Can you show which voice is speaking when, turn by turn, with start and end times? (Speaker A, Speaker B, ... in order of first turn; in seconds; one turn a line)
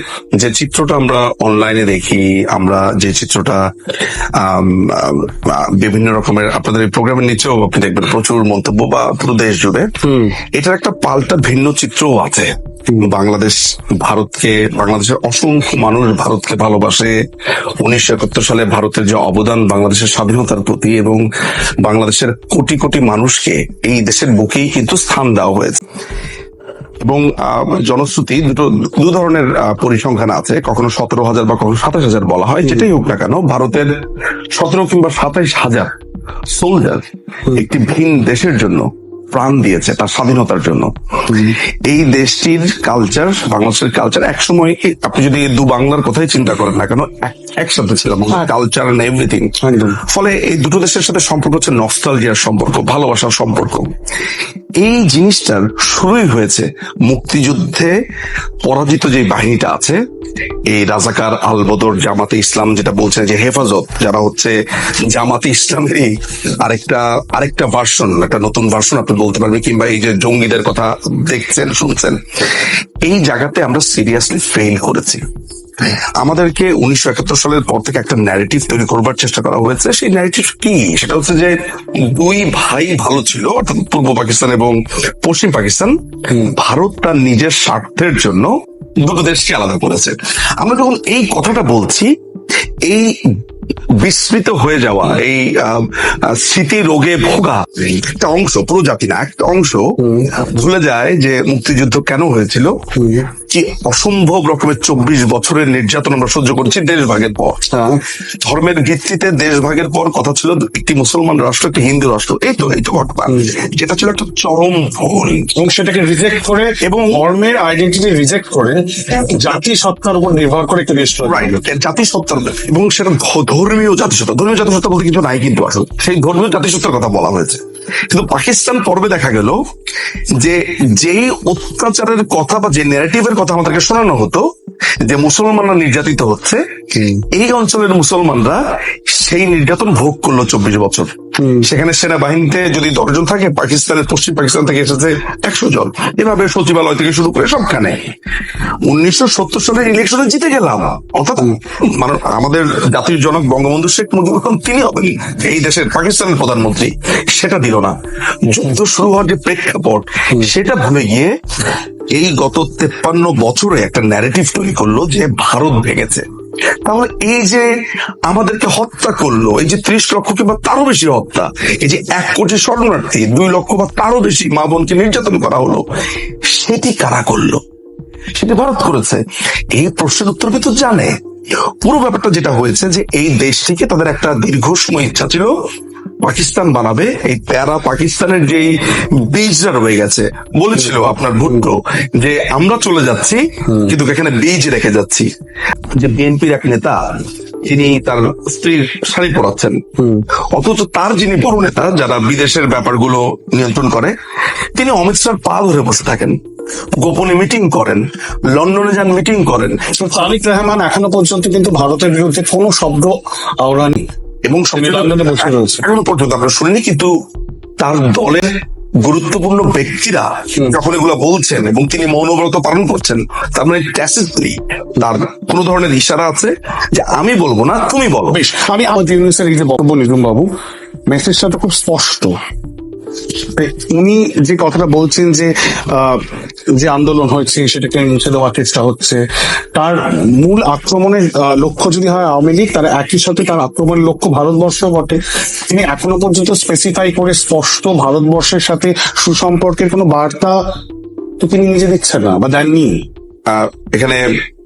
Speaker A: 0.4-3.6
Speaker A: 4.4-9.9
Speaker B: 10.0-10.4
Speaker A: 10.6-17.1
Speaker A: 17.8-21.2
Speaker A: 21.8-25.8
Speaker A: 27.0-33.9
Speaker A: 34.5-35.9
Speaker A: 36.5-53.9
Speaker B: 41.3-41.6
Speaker B: 49.6-50.0
Speaker A: 54.8-57.9
Speaker A: 58.6-60.0
Speaker A: 60.7-64.5
Speaker A: 65.1-75.2
Speaker A: 75.8-92.1
Speaker A: 92.8-93.3
Speaker A: 94.0-102.8
Speaker B: 100.0-100.3
Speaker B: 103.0-103.3
Speaker A: 103.5-107.7
Speaker B: 107.7-108.0
Speaker A: 108.4-115.5
Speaker B: 115.6-121.7
Speaker A: 116.8-117.1
Speaker A: 121.2-129.6
Speaker A: 130.4-134.4
Speaker A: 135.0-136.6
Speaker B: 136.9-137.2
Speaker A: 137.3-148.1
Speaker B: 141.4-141.7
Speaker A: 148.9-158.0
Speaker A: 158.5-161.3
Speaker A: 162.2-166.2
Speaker A: 166.8-167.7
Speaker A: 168.3-175.9
Speaker A: 176.5-177.6
Speaker A: 178.3-179.2
Speaker A: 179.7-181.2
Speaker A: 181.8-185.5
Speaker A: 186.2-188.7
Speaker A: 189.3-195.3
Speaker B: 193.7-193.9
Speaker A: 196.0-199.8
Speaker B: 200.0-200.2
Speaker A: 200.5-204.1
Speaker A: 204.8-206.4
Speaker A: 206.9-210.3
Speaker B: 209.9-214.0
Speaker A: 214.5-217.1
Speaker B: 214.8-215.8
Speaker A: 217.8-218.5
Speaker A: 219.0-228.4
Speaker B: 228.3-230.5
Speaker B: 231.1-232.4
Speaker B: 233.4-239.2
Speaker B: 239.8-250.6
Speaker B: 251.4-253.1
Speaker A: 253.5-254.3